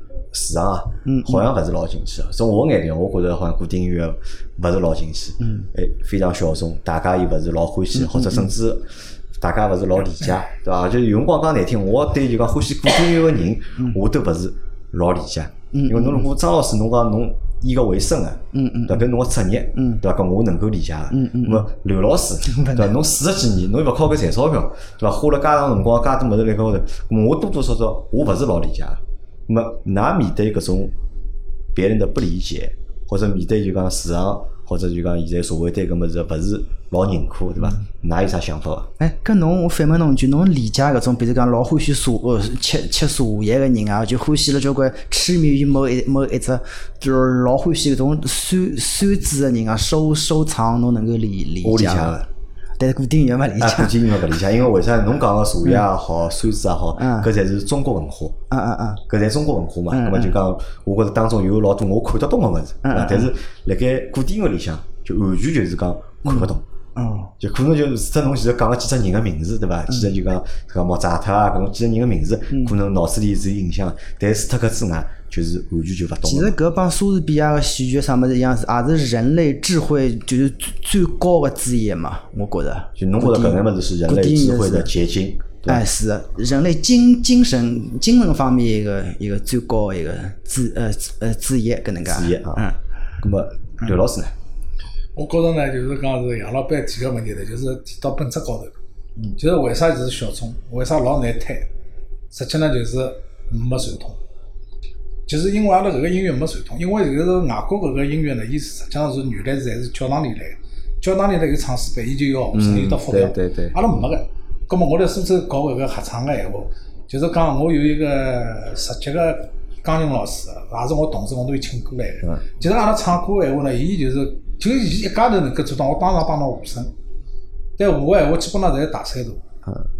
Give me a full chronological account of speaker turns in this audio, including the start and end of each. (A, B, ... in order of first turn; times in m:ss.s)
0:00.3-0:30.9 A
0:01.0-0:01.4 B
0:05.4-0:05.7 B
0:08.0-0:08.5 B
0:15.7-0:16.3 B
0:18.5-0:19.1 B
0:19.8-0:20.0 B
0:21.1-0:21.7 B
0:22.5-0:23.0 B
0:31.7-0:38.9 A
0:39.0-0:52.2 B
0:51.6-0:52.3 A
0:52.8-0:54.0 B
0:53.6-0:58.4 A
0:57.0-0:57.3 B
0:58.5-0:59.0 B
0:59.1-1:06.6 A
0:59.9-1:00.4 B
1:02.8-1:03.3 B
1:06.2-1:07.3 B
1:07.4-1:16.6 A
1:16.2-1:24.9 B
1:23.0-1:25.8 A
1:25.7-1:32.8 B
1:32.0-1:32.7 A
1:33.2-1:34.3 A
1:35.2-1:38.8 C
1:39.4-1:41.7 C
1:42.3-1:44.2 C
1:45.3-2:06.9 C
1:52.5-1:53.8 A
2:07.8-2:09.4 C